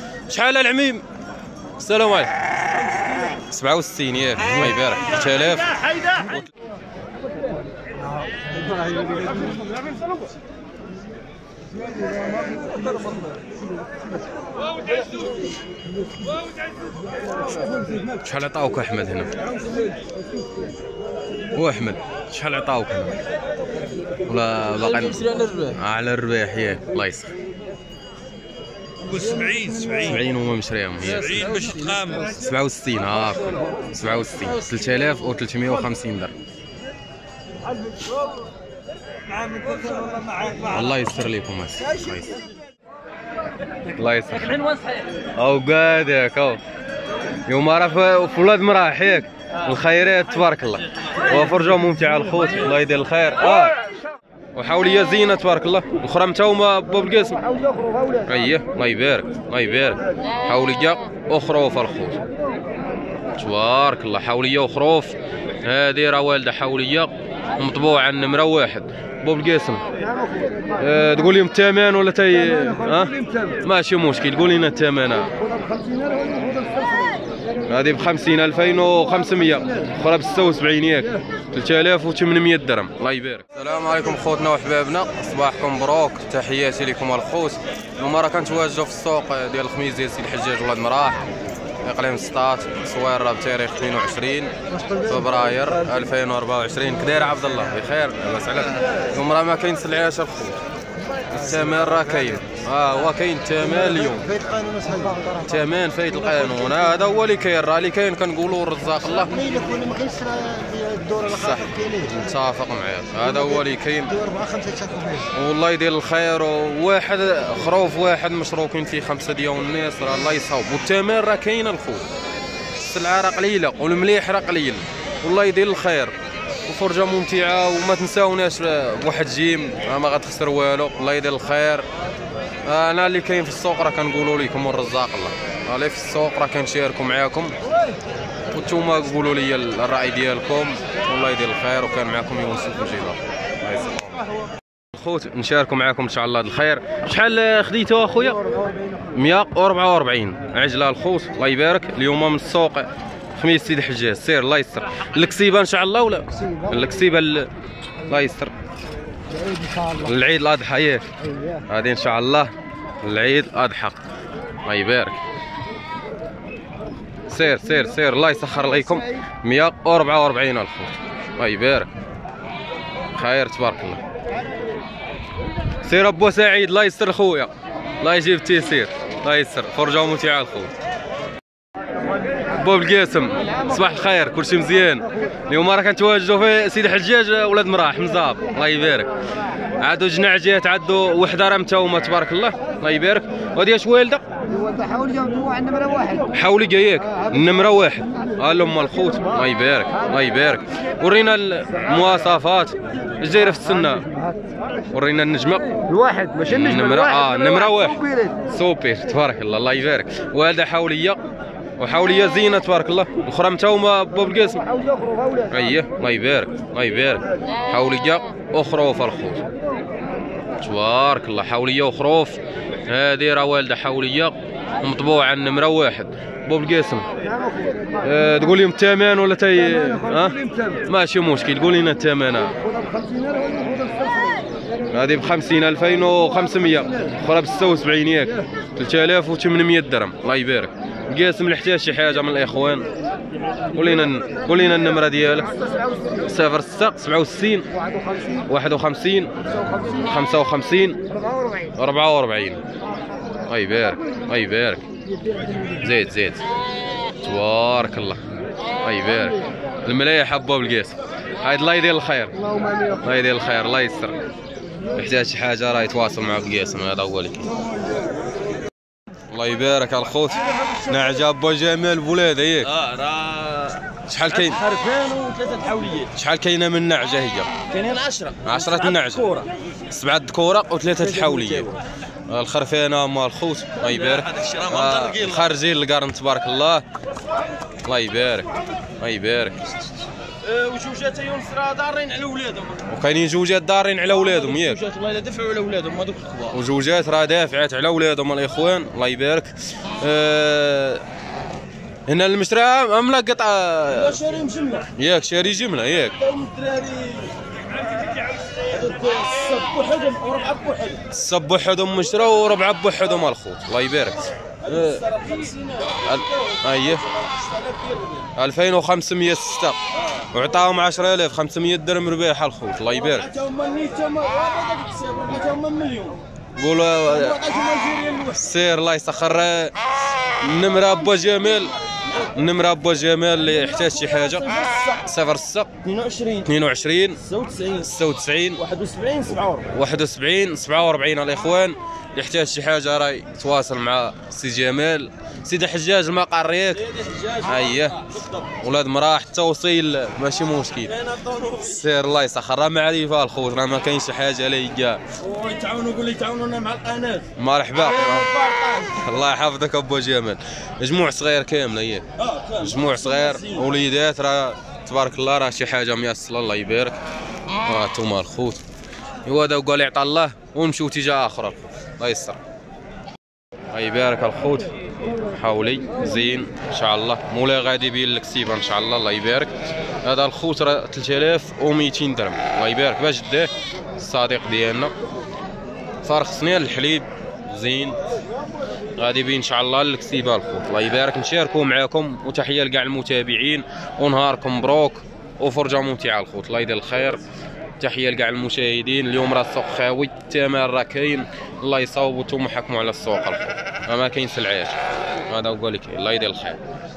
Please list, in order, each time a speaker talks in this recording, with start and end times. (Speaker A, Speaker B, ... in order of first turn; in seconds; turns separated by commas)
Speaker A: 0.3-1.0, Speaker A: 1.8-2.3, Speaker A: 3.5-5.8, Speaker A: 18.2-19.3, Speaker A: 21.6-23.2, Speaker A: 24.3-27.3, Speaker B: 25.0-25.8, Speaker B: 29.1-30.2, Speaker A: 30.0-36.3, Speaker B: 31.3-32.2, Speaker A: 40.6-42.4, Speaker A: 43.9-44.7, Speaker A: 45.4-46.6, Speaker A: 47.5-53.8, Speaker A: 54.5-57.4, Speaker A: 58.2-62.2, Speaker A: 63.4-69.8, Speaker A: 70.8-75.3, Speaker A: 77.7-91.3, Speaker A: 91.8-100.6, Speaker A: 101.3-104.5, Speaker C: 104.5-105.3, Speaker A: 105.4-109.6, Speaker C: 109.5-111.2, Speaker A: 111.2-114.3, Speaker C: 114.3-115.2, Speaker A: 115.2-122.1, Speaker A: 122.7-126.1, Speaker A: 126.7-131.9, Speaker A: 132.7-137.6, Speaker A: 138.5-144.2, Speaker A: 144.9-148.5, Speaker A: 149.1-157.5, Speaker A: 158.1-158.5, Speaker A: 159.9-162.5, Speaker A: 163.0-164.0, Speaker A: 164.7-165.2, Speaker A: 167.3-171.9, Speaker A: 173.2-174.0, Speaker A: 175.8-180.7, Speaker A: 182.5-189.1, Speaker A: 189.8-194.2, Speaker C: 194.8-196.1, Speaker A: 196.3-204.1, Speaker A: 204.9-205.7, Speaker A: 206.4-211.2, Speaker A: 211.8-214.7, Speaker A: 215.5-219.4, Speaker A: 220.6-227.1, Speaker A: 228.0-232.6, Speaker A: 234.9-242.9, Speaker A: 243.7-245.6, Speaker A: 246.2-247.7, Speaker A: 248.4-249.3, Speaker A: 249.9-251.0, Speaker A: 251.8-252.6, Speaker A: 253.5-254.8, Speaker A: 255.8-256.4, Speaker A: 257.2-262.4, Speaker A: 263.0-264.2, Speaker A: 265.0-267.5, Speaker A: 269.3-272.7, Speaker B: 270.6-270.9, Speaker B: 272.7-276.1, Speaker A: 274.1-274.6, Speaker A: 276.1-277.5, Speaker B: 277.7-279.5, Speaker A: 278.4-279.3, Speaker A: 279.9-281.7, Speaker B: 281.0-281.8, Speaker A: 282.3-286.8, Speaker B: 283.8-285.5, Speaker A: 287.9-289.8, Speaker B: 290.4-292.9, Speaker A: 292.9-294.8, Speaker B: 294.1-296.6, Speaker A: 296.5-301.0, Speaker A: 302.1-304.2, Speaker B: 304.0-304.9, Speaker A: 304.9-306.2, Speaker B: 306.2-311.1, Speaker A: 311.1-315.1, Speaker B: 314.7-316.0, Speaker A: 316.0-317.1, Speaker B: 317.4-318.2, Speaker A: 318.4-323.3, Speaker B: 323.0-326.2, Speaker A: 326.6-327.4, Speaker B: 327.1-328.4, Speaker A: 328.3-331.7, Speaker A: 332.3-335.7, Speaker B: 333.5-335.0, Speaker B: 335.8-336.5, Speaker A: 336.4-337.2, Speaker B: 337.2-337.9, Speaker A: 337.8-338.6, Speaker B: 338.6-339.7, Speaker A: 339.6-348.1, Speaker B: 346.9-347.6, Speaker A: 348.6-350.9, Speaker B: 350.9-351.7, Speaker A: 351.6-355.0, Speaker B: 355.2-357.3, Speaker A: 357.4-358.3, Speaker B: 357.8-359.0, Speaker A: 358.9-362.1, Speaker B: 362.3-363.6, Speaker A: 362.6-367.0, Speaker A: 367.6-368.6, Speaker A: 369.2-372.4, Speaker A: 373.7-374.7, Speaker A: 375.3-379.5, Speaker A: 380.0-384.9, Speaker A: 386.0-388.0, Speaker A: 389.0-397.2, Speaker A: 397.8-404.8, Speaker A: 405.3-406.6